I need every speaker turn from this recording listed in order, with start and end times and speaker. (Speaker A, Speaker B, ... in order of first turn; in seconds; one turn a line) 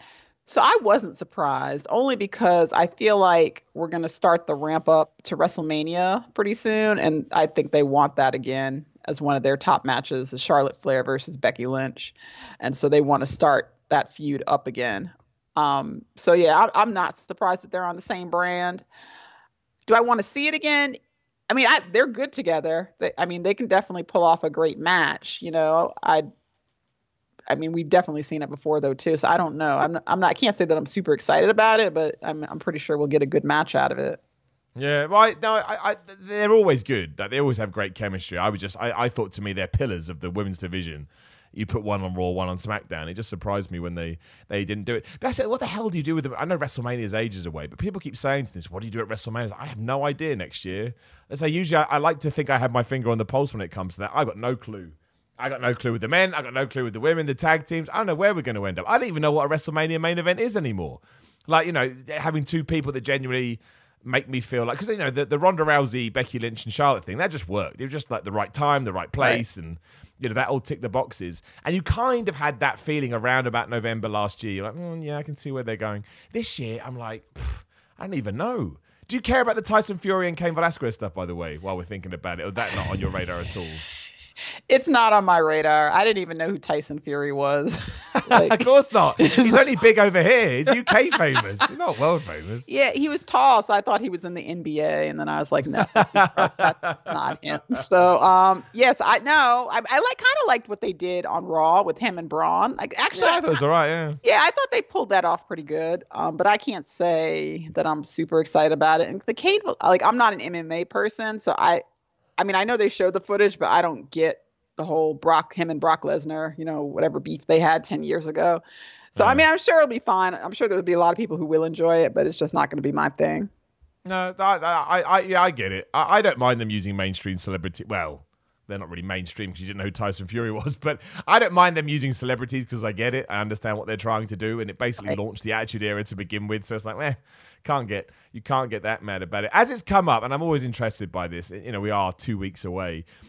Speaker A: 0.5-18.9
Speaker A: 19.9-21.0
Speaker A: 21.5-26.2
Speaker A: 27.5-34.2
Speaker B: 34.8-83.8
Speaker A: 84.7-88.7
Speaker B: 88.2-92.7
Speaker A: 89.2-89.6
Speaker A: 92.7-103.5
Speaker B: 95.8-97.8
Speaker B: 103.1-104.2
Speaker A: 104.2-111.8
Speaker A: 112.4-118.6
Speaker B: 119.2-119.5
Speaker A: 119.2-123.5
Speaker B: 124.0-143.0